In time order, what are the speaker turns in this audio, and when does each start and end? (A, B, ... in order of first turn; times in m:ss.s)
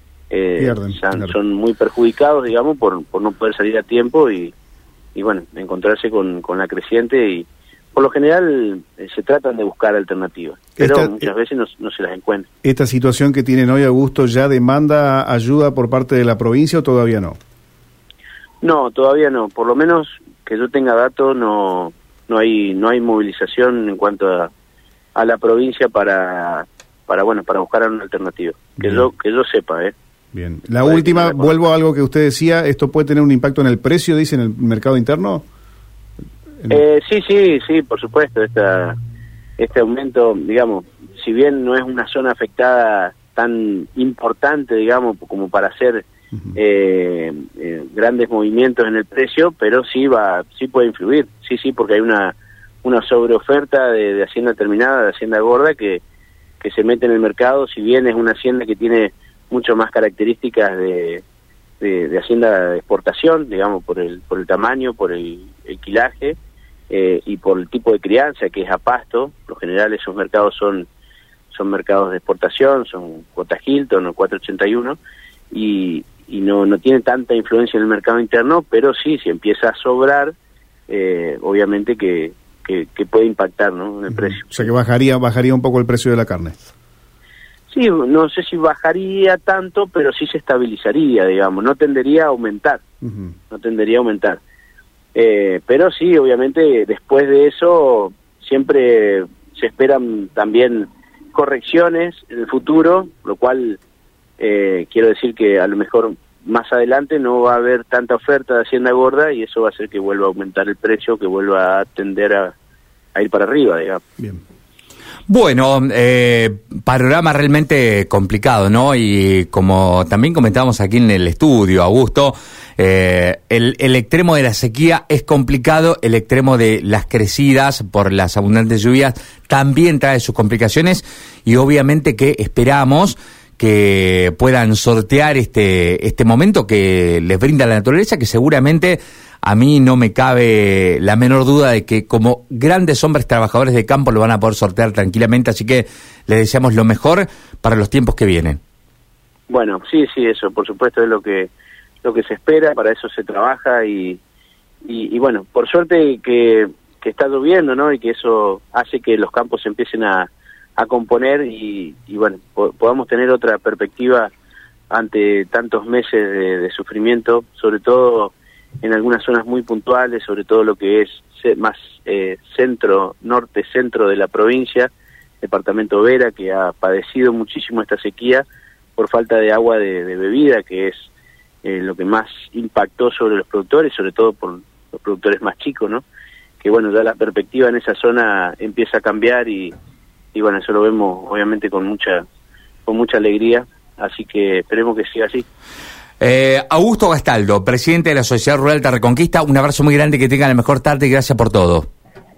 0:00.3-0:04.5 A
0:00.6-0:01.4 B
0:05.2-0:12.5 A
0:10.8-0:11.3 B
0:12.6-0:17.4 B
0:18.6-0:24.5 A
0:25.2-0:30.0 A
0:28.8-0:29.1 B
0:30.3-0:35.5 B
0:30.8-0:31.6 A
0:36.7-0:39.0 A
0:39.6-0:56.0 A
0:56.6-1:01.2 A
1:01.8-1:06.4 A
1:06.9-1:10.9 A
1:11.5-1:15.0 A
1:15.5-1:20.3 A
1:20.9-1:24.7 A
1:24.1-1:26.6 B
1:27.7-1:32.8 A
1:33.0-1:33.3 B
1:33.5-1:34.4 A
1:35.2-1:43.8 A
1:44.4-1:52.5 A
1:53.2-1:54.0 A
1:55.3-2:28.6 C
2:29.5-2:31.5 A
2:32.0-2:34.2 A
2:34.8-2:44.3 A
2:44.9-2:54.9 A
2:55.4-2:58.4 A
2:59.0-3:01.1 A
3:01.6-3:06.0 A
3:06.6-3:09.8 A
3:10.3-3:12.2 A
3:12.9-3:15.5 A
3:16.2-3:21.9 C